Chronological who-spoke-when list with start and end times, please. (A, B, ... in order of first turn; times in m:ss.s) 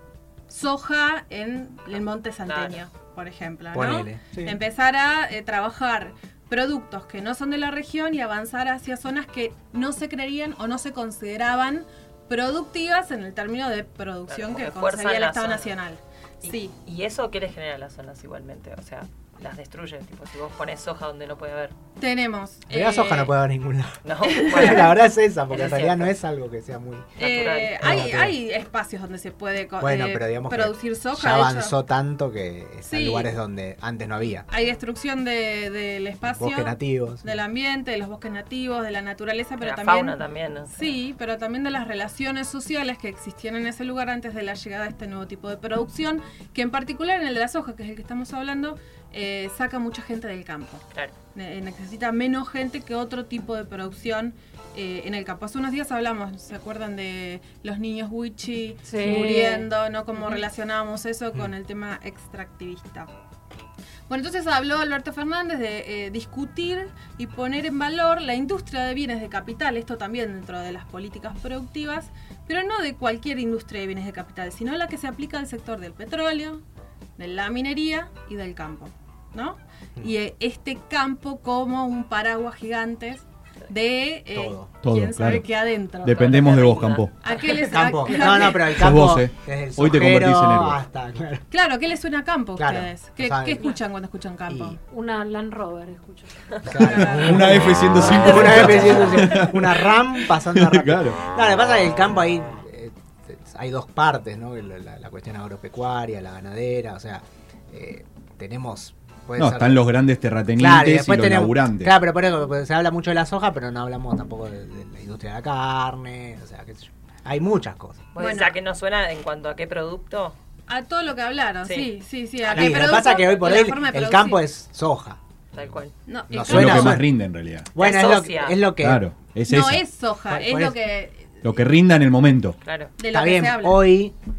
0:00.5-0:16.8 A
0:02.5-0:02.8 B
0:03.7-0:04.6 C
0:14.3-0:15.8 B
0:16.4-0:21.7 B
0:22.0-0:23.3 A
0:22.7-0:27.1 C
0:24.0-0:24.9 B
0:24.2-0:24.9 A
0:25.5-0:26.2 B
0:27.2-0:28.0 B
0:27.2-0:31.8 A
0:27.8-0:28.4 C
0:29.8-0:34.5 C
0:32.9-0:33.3 A
0:34.5-1:03.1 A
0:36.4-0:37.4 C
0:39.6-0:41.0 B
0:58.8-0:59.7 D
1:04.1-1:16.6 A
1:17.2-1:28.8 A
1:24.4-1:24.7 C
1:24.8-1:25.4 E
1:26.0-1:27.1 E
1:26.1-1:27.8 B
1:27.6-1:31.4 C
1:28.8-1:30.8 E
1:31.5-1:34.8 A
1:32.6-1:33.7 C
1:34.5-1:34.8 C
1:34.8-1:36.9 D
1:36.6-1:49.9 C
1:36.7-1:37.6 A
1:36.9-1:39.7 E
1:38.0-1:39.2 B
1:40.5-1:41.2 E
1:49.4-1:51.9 E
1:50.6-1:58.0 C
1:58.1-2:00.4 B
1:58.2-1:58.6 A
2:00.7-2:04.5 A
2:01.6-2:01.9 B
2:02.5-2:02.8 B
2:02.5-2:05.2 C
2:05.5-2:05.9 B
2:06.0-2:07.0 A
2:06.3-2:07.1 C
2:06.4-2:07.7 E
2:07.8-2:09.0 C
2:07.8-2:08.7 B
2:08.8-2:09.8 E
2:09.5-2:11.6 A
2:10.3-2:10.8 C
2:11.4-2:12.6 E
2:12.6-2:12.9 B
2:13.0-2:14.0 A
2:13.1-2:14.2 C